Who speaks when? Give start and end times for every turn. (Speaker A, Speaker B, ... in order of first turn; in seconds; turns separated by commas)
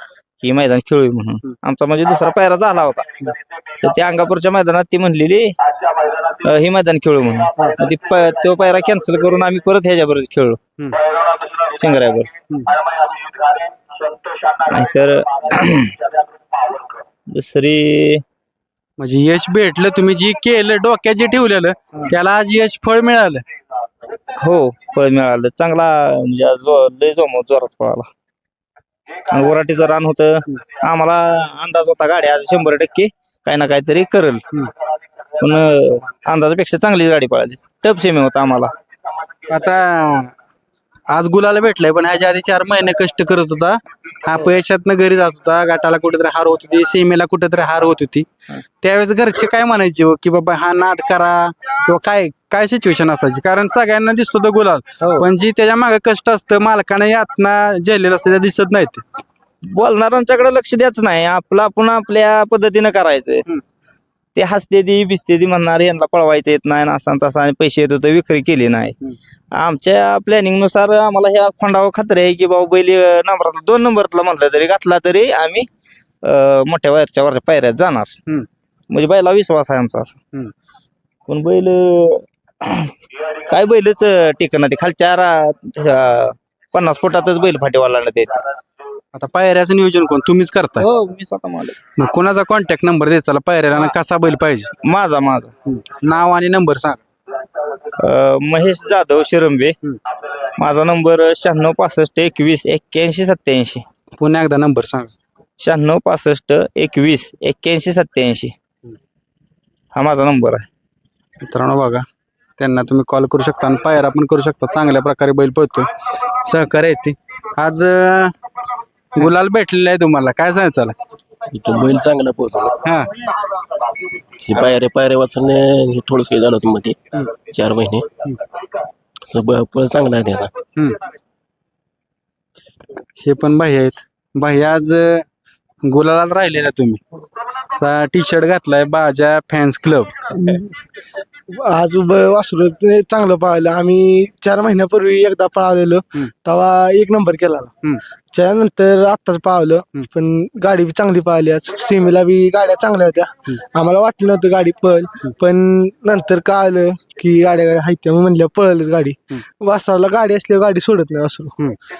Speaker A: 0.4-3.2, Speaker A: 3.8-5.5, Speaker A: 6.2-10.6, Speaker A: 11.2-12.3, Speaker A: 14.6-16.0, Speaker A: 17.3-18.2, Speaker B: 19.0-23.4, Speaker A: 24.4-28.1, Speaker A: 29.3-34.4, Speaker A: 35.4-38.7, Speaker B: 39.5-40.3, Speaker B: 41.1-48.3, Speaker B: 48.8-59.0, Speaker A: 55.0-55.3, Speaker A: 59.7-63.5, Speaker A: 64.3-69.0, Speaker A: 69.5-75.7, Speaker A: 76.2-78.1, Speaker A: 78.9-80.2, Speaker A: 81.3-83.0, Speaker A: 83.5-88.4, Speaker B: 89.1-90.9, Speaker A: 90.8-91.8, Speaker B: 92.0-94.7, Speaker A: 94.8-95.5, Speaker B: 95.7-97.0, Speaker A: 98.0-99.8, Speaker A: 100.6-103.8, Speaker B: 104.2-105.1, Speaker A: 105.6-108.5, Speaker A: 110.0-110.7, Speaker B: 111.4-112.0, Speaker B: 112.6-118.3, Speaker B: 119.2-121.0, Speaker C: 121.5-122.8, Speaker B: 122.8-123.1, Speaker C: 124.4-128.1, Speaker C: 129.3-130.5, Speaker B: 133.2-135.2, Speaker B: 135.8-137.0, Speaker B: 137.8-140.3, Speaker D: 140.4-140.8, Speaker D: 141.5-147.7, Speaker D: 148.3-161.6